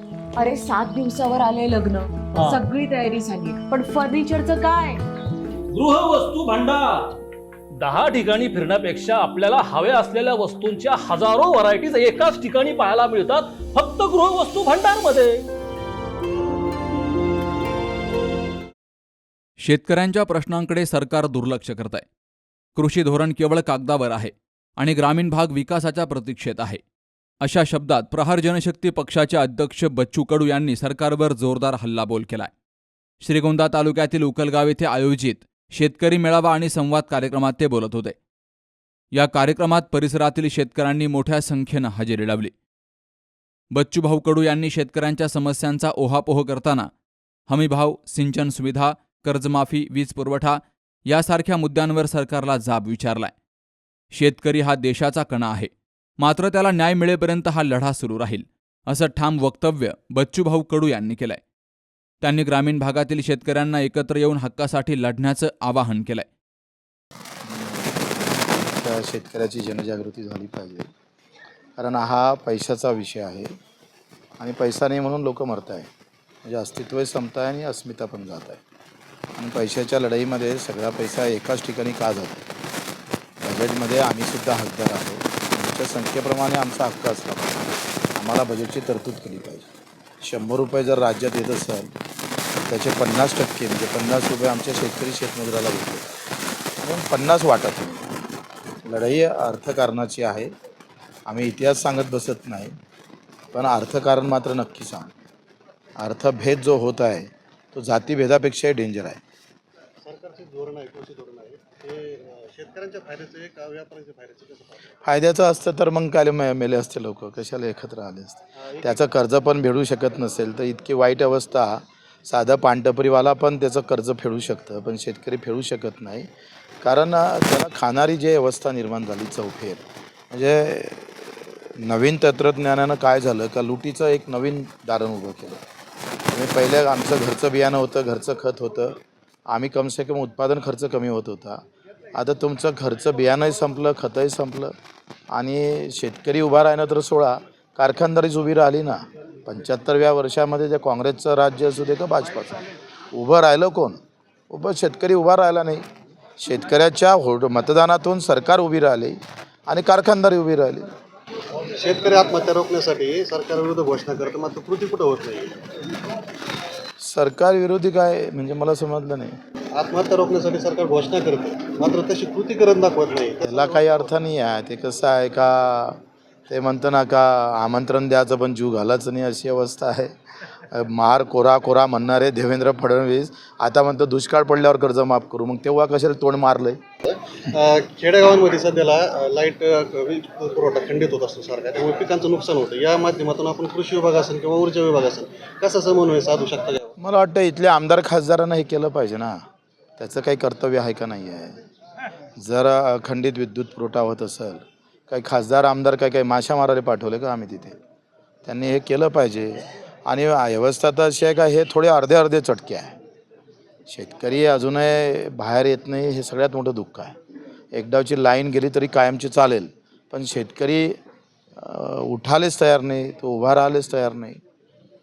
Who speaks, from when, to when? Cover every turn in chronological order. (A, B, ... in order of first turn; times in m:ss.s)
0:00.4-0:05.0 A
0:02.4-0:02.6 B
0:05.7-0:07.2 B
0:07.8-0:15.4 B
0:19.6-0:22.1 C
0:22.8-0:26.8 C
0:27.4-0:32.5 C
0:33.2-0:38.2 C
0:39.1-0:42.5 C
0:43.7-0:46.9 C
0:47.5-0:53.3 C
0:54.1-1:01.4 C
1:02.2-1:06.3 C
1:07.4-1:10.9 D
1:11.8-1:13.5 D
1:14.4-1:15.9 D
1:16.5-1:18.6 D
1:19.4-1:22.4 D
1:23.4-1:29.7 D
1:30.2-1:31.9 D
1:32.7-1:36.1 D
1:36.8-1:38.0 D
1:38.9-1:40.5 D
1:41.3-1:42.7 D
1:43.5-1:45.1 D
1:46.0-1:49.2 D
1:50.0-1:54.8 E
1:55.0-2:06.3 D
1:58.6-1:59.2 E
2:06.8-2:15.6 D
2:16.3-2:19.0 D
2:19.5-2:21.6 D
2:22.2-2:24.7 D
2:25.3-2:34.0 D
2:34.5-2:35.8 D
2:36.4-2:39.2 D
2:39.7-2:40.8 D
2:41.6-2:45.8 E
2:47.0-2:49.3 D
2:49.7-2:54.1 E
2:53.4-3:00.1 D
3:00.7-3:06.8 D
3:07.0-3:16.9 E
3:17.0-3:19.4 D
3:20.0-3:21.6 D
3:22.4-3:27.8 D
3:28.5-3:32.9 D
3:33.9-3:37.1 D
3:37.7-3:41.0 D
3:41.6-3:44.4 D